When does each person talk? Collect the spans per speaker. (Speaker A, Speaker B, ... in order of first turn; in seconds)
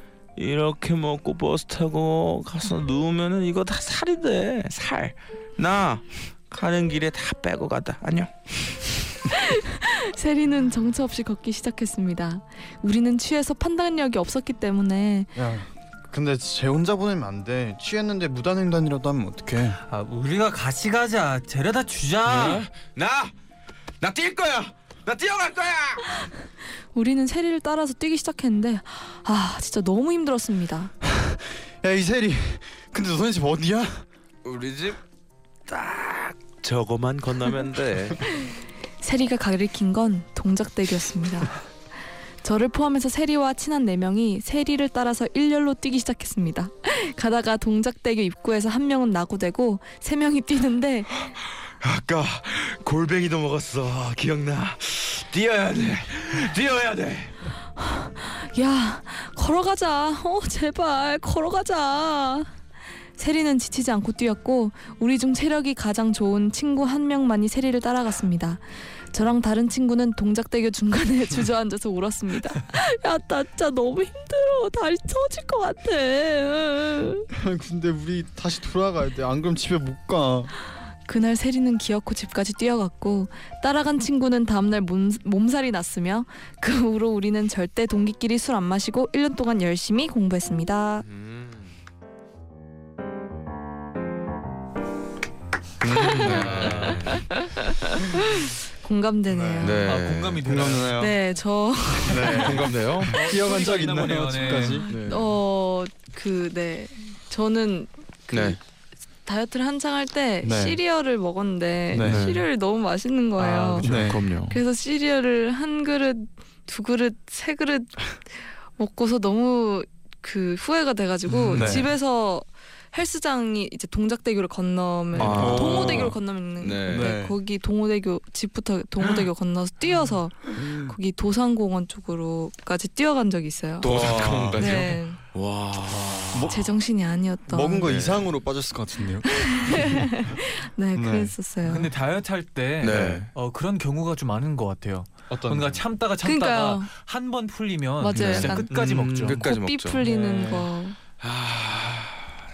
Speaker A: 0.3-8.8, 22.2-23.3, 24.0-26.2, 34.4-35.0, 35.7-38.2, 51.8-57.3, 91.0-91.7, 95.8-97.2, 99.6-100.8, 102.4-103.2, 104.9-105.3, 108.3-108.6, 112.0-112.5, 113.8-114.6, 125.2-127.2, 129.0-129.3, 130.6-130.9, 133.8-136.5, 137.8-138.3, 142.8-143.3, 148.1-150.0, 151.2-152.3
Speaker B: 9.3-15.3, 26.9-30.9, 39.0-41.5, 42.4-51.2, 57.8-62.5, 63.2-77.3, 81.0-91.0, 96.0-99.8, 101.0-102.5, 104.8-107.9, 109.2-113.8, 114.4-135.2, 136.5-137.9, 139.3-141.9, 146.2-146.9, 148.0-151.0
Speaker C: 15.3-19.8, 31.0-34.0, 77.3-80.5, 96.0-96.8, 99.3-99.8, 100.4-101.1, 102.0-104.9, 108.3-108.6, 110.4-110.8, 111.9-112.3, 113.8-114.2, 121.3-121.9, 125.2-126.2, 126.8-127.3, 133.8-134.8, 136.3-136.7, 137.5-140.0, 140.9-141.3, 142.9-143.2, 145.3-145.8, 148.7-149.3
Speaker D: 19.9-22.7, 96.1-97.2, 99.8-101.1, 103.1-104.9, 113.4-114.1, 141.6-149.4, 150.0-150.7